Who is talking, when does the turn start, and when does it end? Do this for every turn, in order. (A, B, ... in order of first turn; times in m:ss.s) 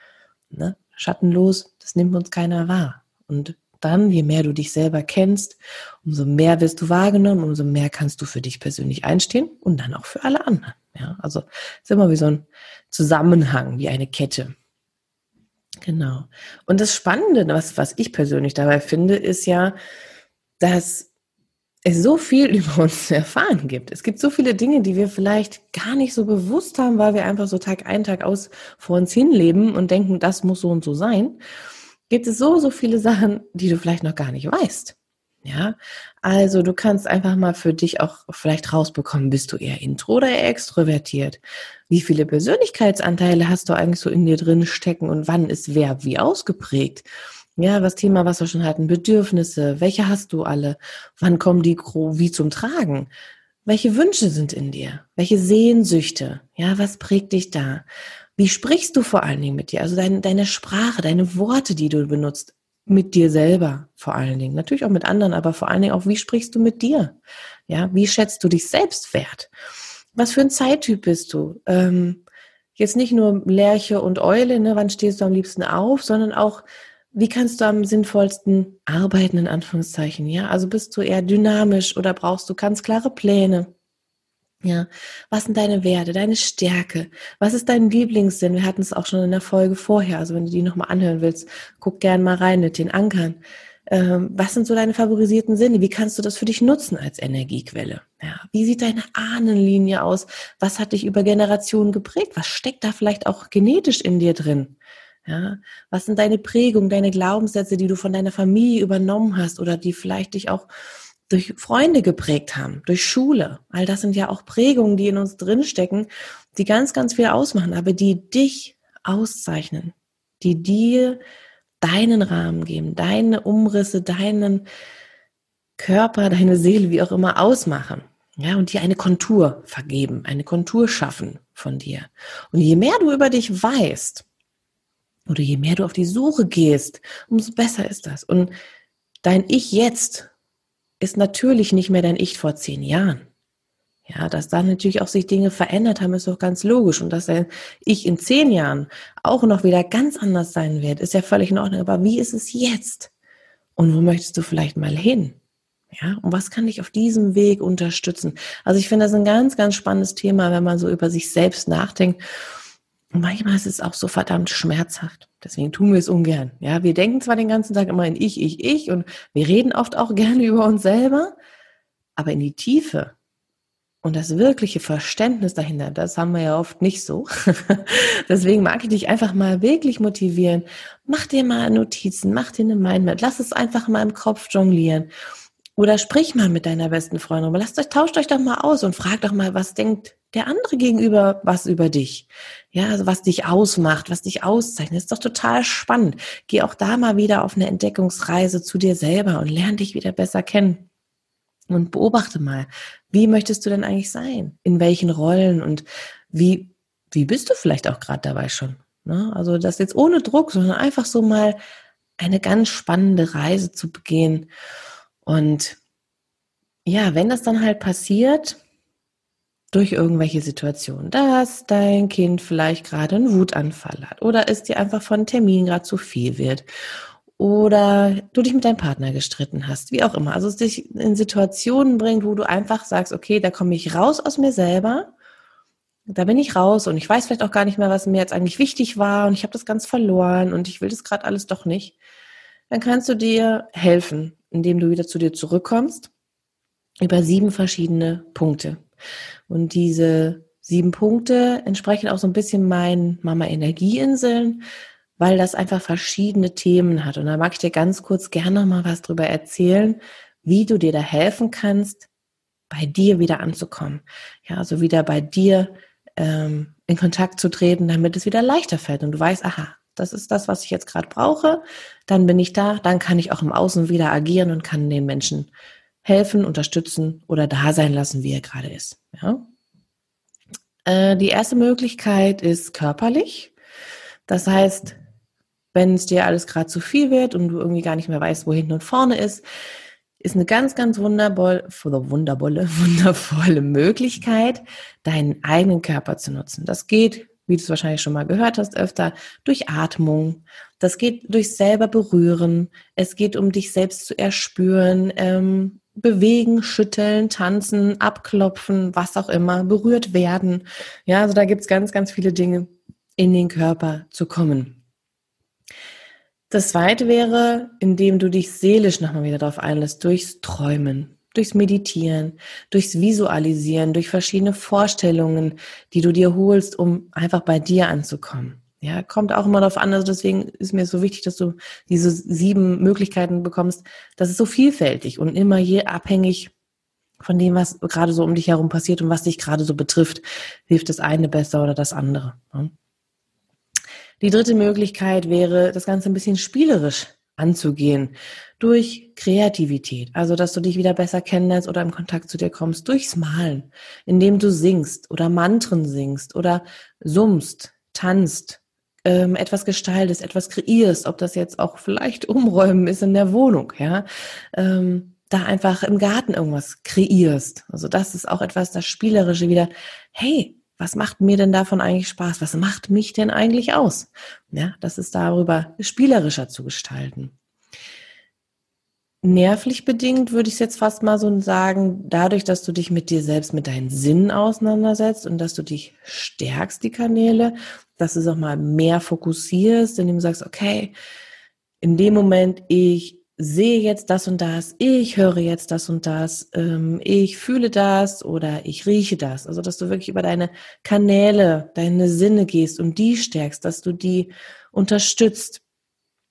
0:00.5-0:14.5 A
0:15.8-0:19.8 A
0:20.6-0:21.1 A
0:21.9-0:31.4 A
0:32.1-0:53.1 A
0:53.7-0:57.9 A
0:58.4-1:07.2 A
1:07.7-1:09.5 A
1:10.2-1:12.2 A
1:12.8-1:23.7 A
1:24.6-1:50.7 A
1:51.3-2:01.2 A
2:01.8-2:04.7 A
2:05.8-2:14.2 A
2:15.3-2:18.5 A
2:19.2-2:20.3 A
2:21.0-2:23.2 A
2:24.1-2:33.1 A
2:33.8-2:35.4 A
2:35.9-2:42.2 A
2:43.1-2:51.4 A
2:52.2-2:53.2 A
2:54.0-3:05.1 A
3:05.8-3:20.9 A
3:21.7-3:31.6 A
3:32.2-3:34.5 A
3:35.3-3:35.8 A
3:36.9-3:38.6 A
3:39.7-3:46.7 A
3:47.4-3:55.1 A
3:56.1-4:02.0 A
4:02.7-4:06.1 A
4:07.0-4:08.8 A
4:09.5-4:14.6 A
4:15.2-4:22.1 A
4:22.7-4:35.5 A
4:36.0-4:39.4 A
4:40.9-4:43.5 A
4:44.3-4:45.0 A
4:45.7-4:49.4 A
4:50.2-5:14.8 A
5:16.5-5:36.5 A
5:37.2-5:42.7 A
5:44.2-6:17.3 A
6:19.2-6:30.9 A
6:31.8-6:45.6 A